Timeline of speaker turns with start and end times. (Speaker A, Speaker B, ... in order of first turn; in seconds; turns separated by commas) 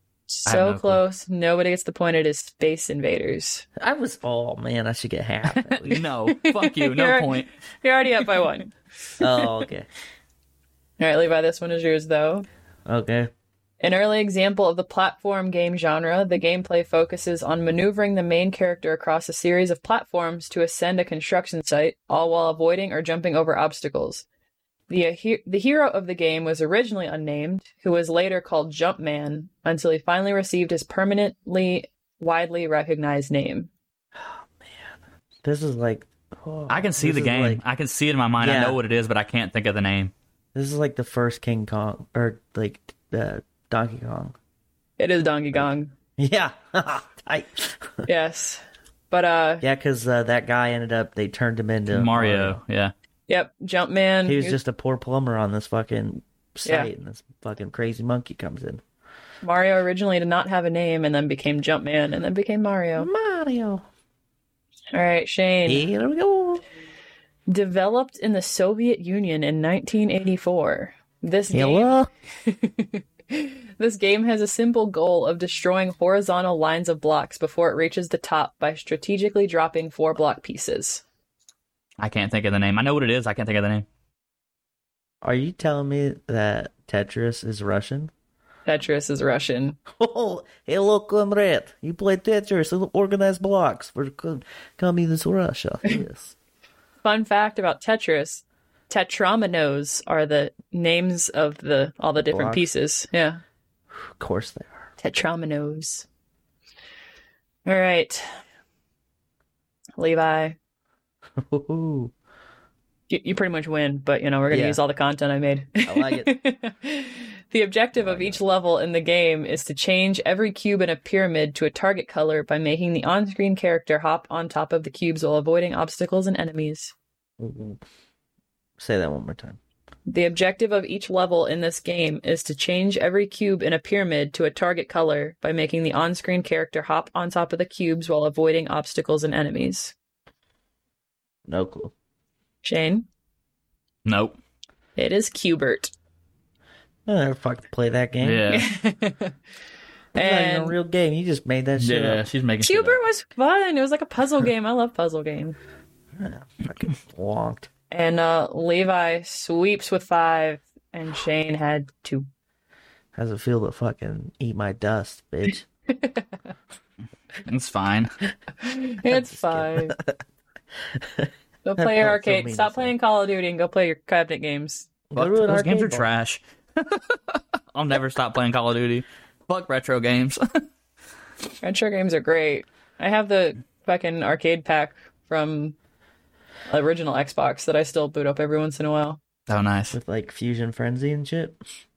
Speaker A: 0.3-3.7, Speaker B: 0.5-1.0, Speaker C: 3.8-6.0, Speaker B: 5.9-7.5, Speaker A: 6.3-9.5, Speaker C: 9.2-9.9, Speaker A: 11.0-12.5, Speaker C: 12.9-13.3, Speaker A: 13.8-24.2, Speaker A: 24.9-33.7, Speaker C: 34.1-37.6, Speaker B: 36.7-40.1, Speaker C: 38.4-38.8, Speaker C: 40.5-44.4, Speaker A: 45.0-45.9, Speaker C: 46.2-48.1, Speaker A: 48.1-49.6, Speaker C: 49.6-52.6, Speaker B: 51.9-52.9, Speaker A: 53.3-54.6, Speaker C: 54.2-58.8, Speaker A: 56.6-56.9, Speaker A: 59.4-63.1, Speaker C: 63.0-63.9, Speaker A: 64.9-65.9, Speaker C: 65.7-66.6, Speaker A: 67.5-71.9, Speaker C: 71.5-72.1, Speaker A: 72.4-81.0, Speaker B: 82.0-83.9, Speaker C: 85.2-88.1, Speaker A: 88.7-89.8, Speaker C: 89.9-96.3, Speaker A: 97.0-103.4, Speaker C: 102.2-102.7, Speaker C: 103.9-104.9, Speaker A: 105.0-106.1, Speaker A: 107.7-108.3, Speaker A: 110.0-110.6, Speaker C: 111.4-112.1, Speaker A: 113.1-126.9, Speaker C: 114.5-114.8, Speaker C: 115.8-116.3, Speaker C: 118.0-118.4, Speaker C: 127.4-127.8, Speaker C: 128.8-129.6, Speaker A: 130.1-139.9, Speaker C: 141.5-141.9, Speaker A: 142.6-143.1, Speaker B: 144.1-144.4, Speaker A: 145.0-145.9, Speaker C: 147.1-148.5, Speaker B: 148.2-148.7, Speaker A: 148.5-149.4, Speaker A: 150.2-150.8, Speaker C: 150.2-152.2, Speaker B: 151.8-153.0, Speaker A: 152.6-155.6, Speaker C: 156.2-157.7, Speaker A: 157.9-162.3, Speaker C: 163.2-165.7, Speaker A: 166.0-166.2, Speaker B: 167.4-168.2, Speaker A: 168.6-169.9, Speaker C: 169.1-170.2, Speaker C: 170.9-172.9, Speaker A: 171.6-174.9, Speaker C: 175.1-176.1, Speaker B: 175.2-180.4, Speaker A: 181.6-185.8, Speaker A: 186.7-189.2, Speaker B: 189.5-190.0, Speaker C: 189.9-191.6